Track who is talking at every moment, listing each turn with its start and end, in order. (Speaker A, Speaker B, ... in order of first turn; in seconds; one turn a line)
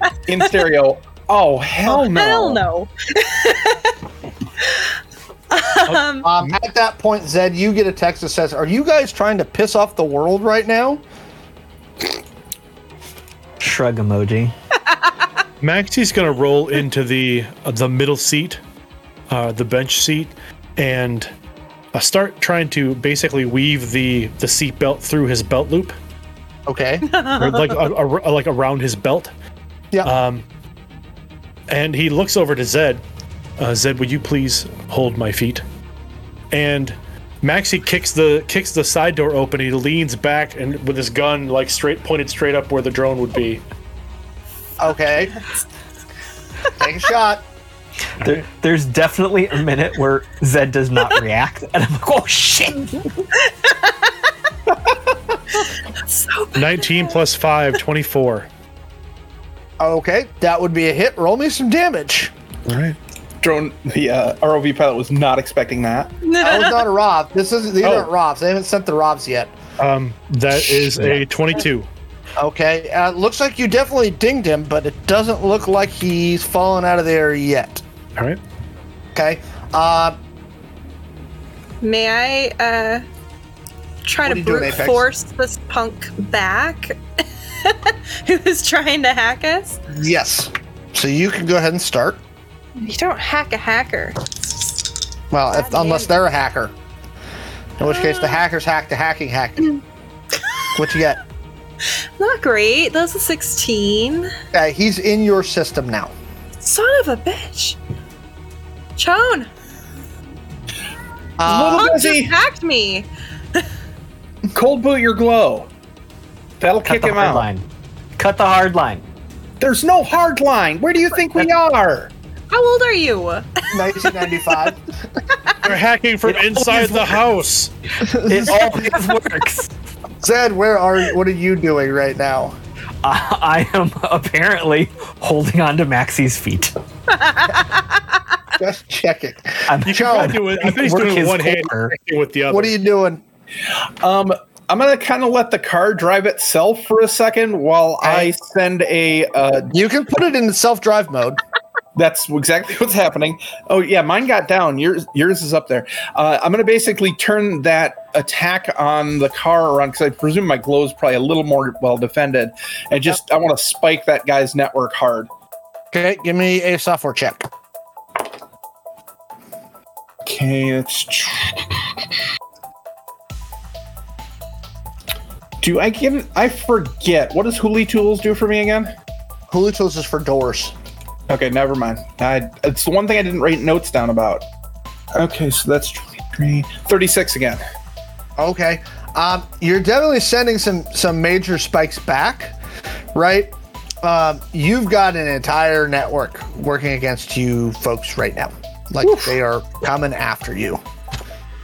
Speaker A: 0.3-2.6
Speaker B: 1.9-4.0
Speaker B: 5.5-6.3
Speaker C: 5.9-6.5
Speaker D: 6.2-11.0
Speaker E: 13.6-14.5
Speaker C: 15.6-18.6
Speaker C: 19.3-21.3
Speaker C: 21.9-26.0
Speaker D: 26.7-27.1
Speaker B: 27.1-27.8
Speaker C: 27.4-29.3
Speaker C: 30.0-30.4
Speaker C: 31.7-33.0
Speaker C: 33.6-35.6
Speaker C: 36.5-43.6
Speaker D: 44.8-45.4
Speaker D: 46.7-47.4
Speaker E: 48.2-53.0
Speaker B: 53.4-54.1
Speaker B: 56.0-57.2
Speaker C: 56.5-58.5
Speaker D: 59.8-62.3
Speaker C: 62.6-63.0
Speaker A: 63.4-66.1
Speaker B: 66.2-66.9
Speaker D: 66.4-69.5
Speaker C: 67.8-68.1
Speaker C: 69.8-71.9
Speaker D: 70.5-71.2
Speaker D: 72.4-77.8
Speaker D: 79.1-80.2
Speaker B: 81.8-83.0
Speaker B: 84.0-89.8
Speaker D: 84.2-85.0
Speaker D: 89.9-92.2
Speaker B: 92.8-94.5
Speaker D: 95.3-96.7
Speaker B: 95.5-96.1
Speaker D: 97.8-99.8
Speaker B: 97.8-98.4
Speaker D: 100.7-101.2
Speaker B: 102.2-104.3
Speaker D: 104.5-106.1
Speaker B: 106.6-107.8
Speaker B: 109.0-109.5
Speaker D: 111.4-111.9
Speaker A: 111.4-112.4
Speaker B: 111.5-113.6
Speaker A: 114.5-115.7
Speaker A: 116.6-117.5
Speaker E: 116.8-117.6
Speaker E: 118.2-119.0
Speaker A: 119.6-122.1
Speaker B: 122.5-124.7
Speaker D: 123.7-124.8
Speaker C: 125.6-127.7
Speaker E: 126.2-127.2
Speaker D: 128.0-129.0
Speaker E: 128.2-129.7
Speaker D: 130.2-132.6
Speaker E: 133.0-136.7
Speaker B: 137.1-138.0
Speaker D: 138.6-141.8
Speaker E: 139.7-141.9
Speaker C: 139.8-142.7
Speaker D: 142.5-143.2
Speaker A: 143.7-149.7
Speaker D: 148.0-148.3
Speaker D: 149.7-151.4
Speaker A: 151.9-165.3
Speaker D: 165.9-167.5
Speaker A: 170.2-171.8
Speaker A: 175.6-178.9
Speaker D: 179.5-180.7
Speaker A: 181.3-184.4
Speaker A: 185.1-187.6
Speaker D: 188.4-192.5
Speaker D: 193.1-200.8
Speaker A: 199.0-199.3